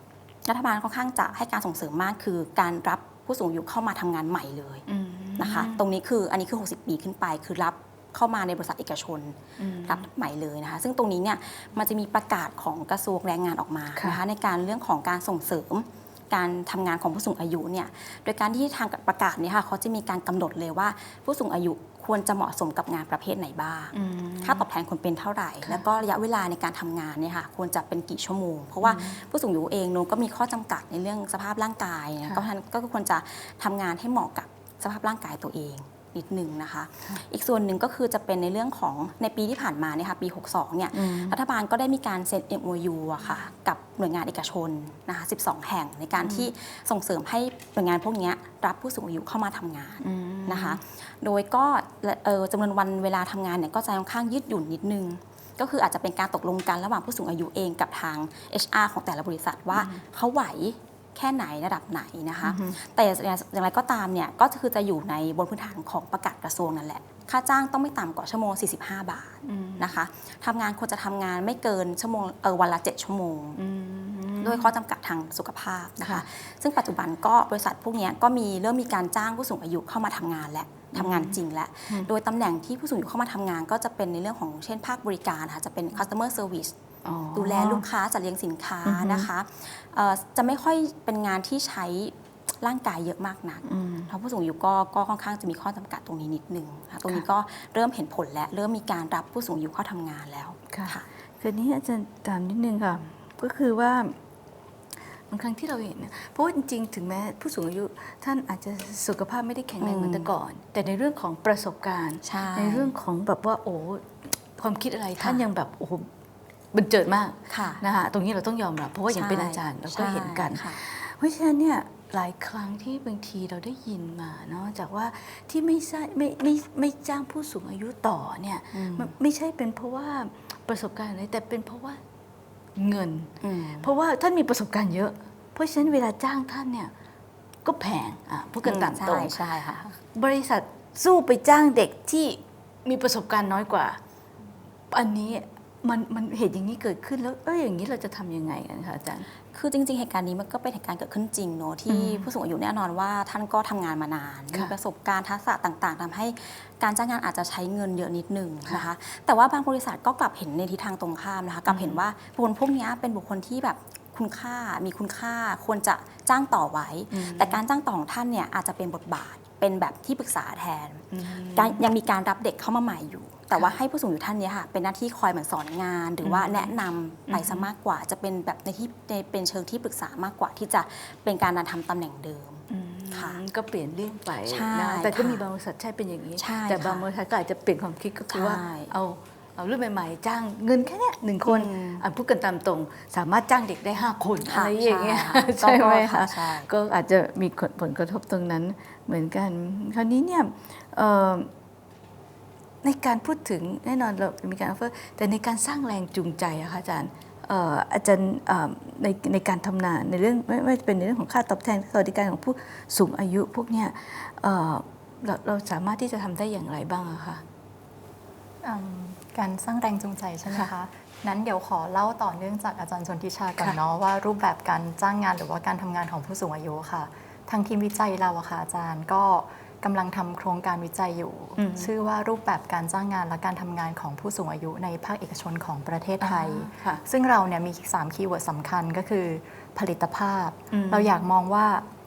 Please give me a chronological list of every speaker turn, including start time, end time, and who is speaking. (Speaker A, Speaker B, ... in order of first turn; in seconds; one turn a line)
Speaker A: 0.5-4.8
Speaker B: 4.9-5.8
Speaker A: 5.4-73.6
Speaker B: 9.6-10.0
Speaker B: 23.9-24.6
Speaker B: 28.8-29.2
Speaker B: 40.9-41.4
Speaker B: 46.2-46.5
Speaker B: 50.0-50.8
Speaker B: 59.7-60.0
Speaker B: 62.4-62.8
Speaker B: 69.4-69.9
Speaker B: 73.6-74.7
Speaker A: 74.4-86.7
Speaker B: 76.0-76.2
Speaker B: 80.9-82.1
Speaker B: 87.0-87.8
Speaker A: 87.3-101.0
Speaker B: 88.8-89.3
Speaker B: 93.6-94.1
Speaker B: 100.7-104.2
Speaker B: 105.1-116.1
Speaker A: 109.8-110.3
Speaker A: 112.2-112.9
Speaker B: 116.7-132.0
Speaker A: 117.5-117.8
Speaker A: 119.1-120.8
Speaker A: 128.7-129.1
Speaker B: 132.8-136.9
Speaker A: 133.4-133.9
Speaker B: 137.6-139.4
Speaker A: 138.6-140.0
Speaker B: 140.1-144.0
Speaker B: 144.9-149.3
Speaker A: 149.5-183.4
Speaker B: 151.9-152.3
Speaker B: 161.7-162.0
Speaker B: 167.1-167.6
Speaker B: 171.1-171.8
Speaker B: 176.2-176.7
Speaker B: 177.3-177.7
Speaker B: 182.7-201.5
Speaker A: 184.5-185.4
Speaker A: 186.4-187.1
Speaker A: 188.3-188.9
Speaker A: 191.4-192.0
Speaker A: 194.4-196.7
Speaker B: 202.8-217.4
Speaker C: 218.6-241.8
Speaker B: 231.6-231.9
Speaker B: 236.2-237.0
Speaker B: 240.7-241.1